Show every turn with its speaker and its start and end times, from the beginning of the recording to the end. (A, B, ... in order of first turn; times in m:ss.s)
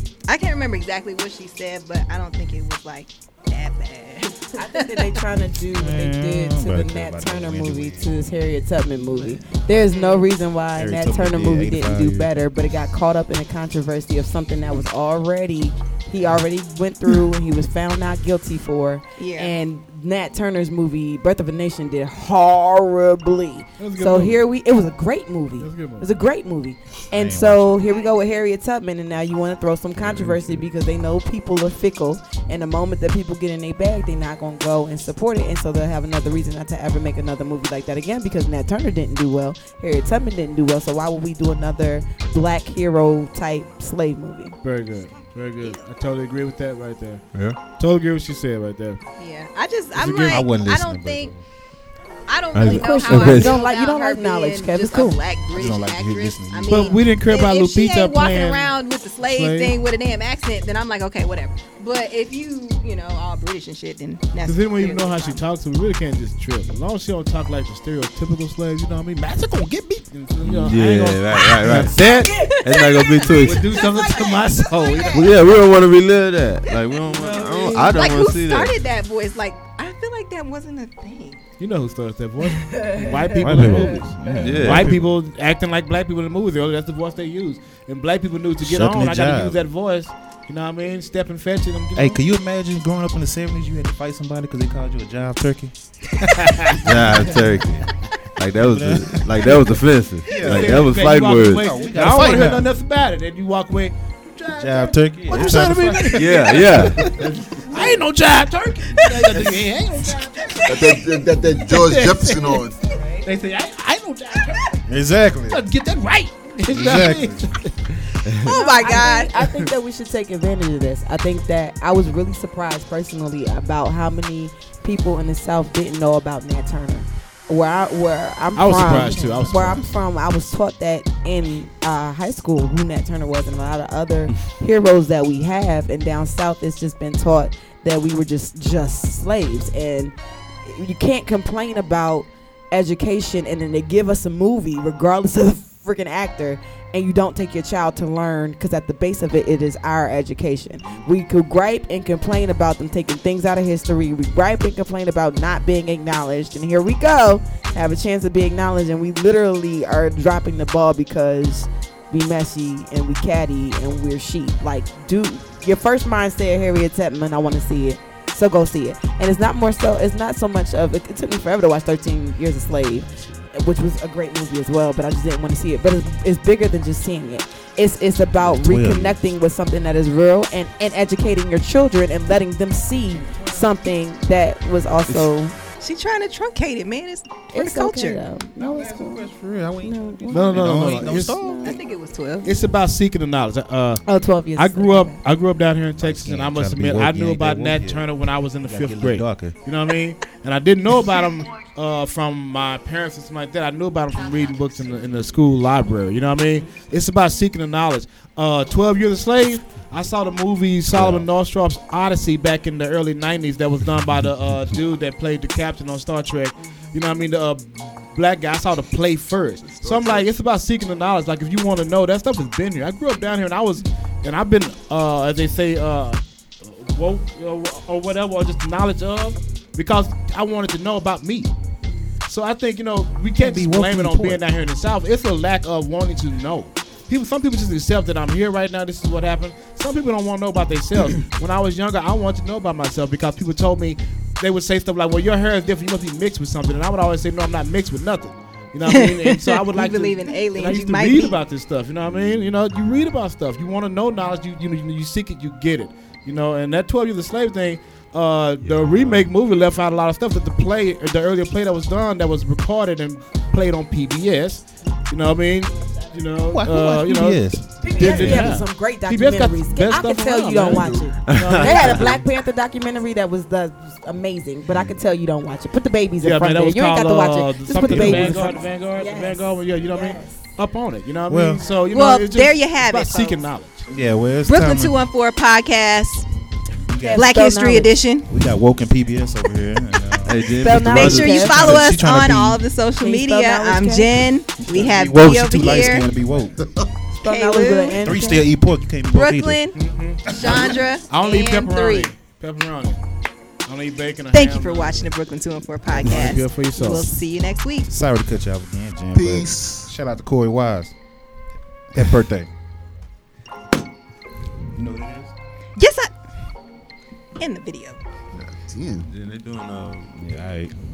0:00.3-0:05.2 A
0:04.6-0:44.6 B
0:05.7-0:08.3 C
0:09.8-0:10.3 A
0:10.8-0:12.5 C
0:19.2-0:19.5 A
0:23.8-0:24.4 D
0:25.6-0:26.1 D
0:27.1-0:27.8 C
0:27.8-0:28.1 A
0:30.0-0:30.6 C
0:44.6-0:49.0 D
0:49.2-0:51.4 A
0:50.0-0:50.5 D
0:50.1-0:51.4 C
0:52.3-1:05.4 A
0:52.5-0:53.6 E
0:52.6-0:55.2 B
0:55.5-0:56.9 C
0:56.7-0:59.7 D
1:04.4-1:09.4 D
1:09.3-1:10.1 C
1:10.1-1:12.5 D
1:10.4-1:12.0 E
1:12.1-1:15.6 A
1:12.6-1:13.8 E
1:13.4-1:15.4 D
1:15.1-1:18.8 E
1:16.6-1:21.4 A
1:21.6-1:32.2 D
1:22.6-1:23.3 A
1:23.4-1:25.0 C
1:24.4-1:25.0 E
1:28.6-1:29.6 C
1:32.0-1:35.8 C
1:36.2-1:36.9 D
1:36.8-1:41.7 E
1:36.8-1:37.5 C
1:38.6-1:39.8 C
1:40.3-1:42.6 C
1:40.3-1:54.8 D
1:44.5-1:47.1 C
1:46.1-1:48.0 E
1:50.6-1:52.8 F
1:54.9-1:55.6 C
1:55.5-1:57.7 D
1:56.7-1:57.5 C
1:58.4-1:59.4 A
1:58.4-3:05.5 B
2:08.6-2:09.8 D
2:08.6-2:09.9 C
2:53.1-2:53.5 C
2:58.4-2:59.2 C
3:03.1-3:03.7 C
3:05.8-3:08.2 A
3:07.5-3:09.3 B
3:08.6-3:11.7 C
3:09.8-3:11.8 B
3:10.3-3:11.4 D
3:11.6-3:12.5 A
3:12.4-3:14.0 D
3:14.1-3:15.2 B
3:14.6-3:51.5 D
3:16.0-3:18.1 C
3:18.6-3:19.6 C
3:30.9-3:31.2 C
3:36.6-3:36.9 B
3:39.6-3:40.3 F
3:52.3-4:32.2 D
3:53.4-3:54.4 C
4:08.9-4:11.4 A
4:18.6-4:19.1 E
4:26.5-4:28.2 C
4:27.1-4:28.5 E
4:27.8-4:40.3 B
4:31.2-4:32.2 E
4:34.7-4:35.0 C
4:36.2-4:43.9 D
4:37.9-4:38.5 C
4:41.3-4:41.7 C
4:41.9-4:43.5 A
4:43.9-4:45.0 C
4:44.5-4:46.3 A
4:46.9-4:47.3 C
4:47.0-4:48.0 B
4:47.1-4:48.3 A
4:48.3-4:52.6 C
4:50.2-4:51.8 E
4:50.6-4:51.6 B
4:50.9-4:56.1 A
4:53.0-4:54.2 B
4:54.6-4:56.6 C
4:56.6-4:56.9 F
4:57.2-4:58.5 B
4:57.2-4:58.0 A
4:58.0-4:59.7 C
4:59.1-4:59.8 A
4:59.8-5:00.4 D
5:00.3-5:00.9 C
5:00.3-5:02.2 A
5:01.1-5:03.0 D
5:03.7-5:05.1 D
5:04.3-5:07.9 A
5:06.0-5:07.1 D
5:07.9-5:10.9 C
5:09.1-5:09.9 F
5:11.9-5:12.5 C
5:14.7-5:15.3 C
5:15.8-5:16.1 A
5:17.4-5:18.0 A
5:18.3-5:19.1 F
5:19.1-5:20.2 E
5:20.1-5:20.7 C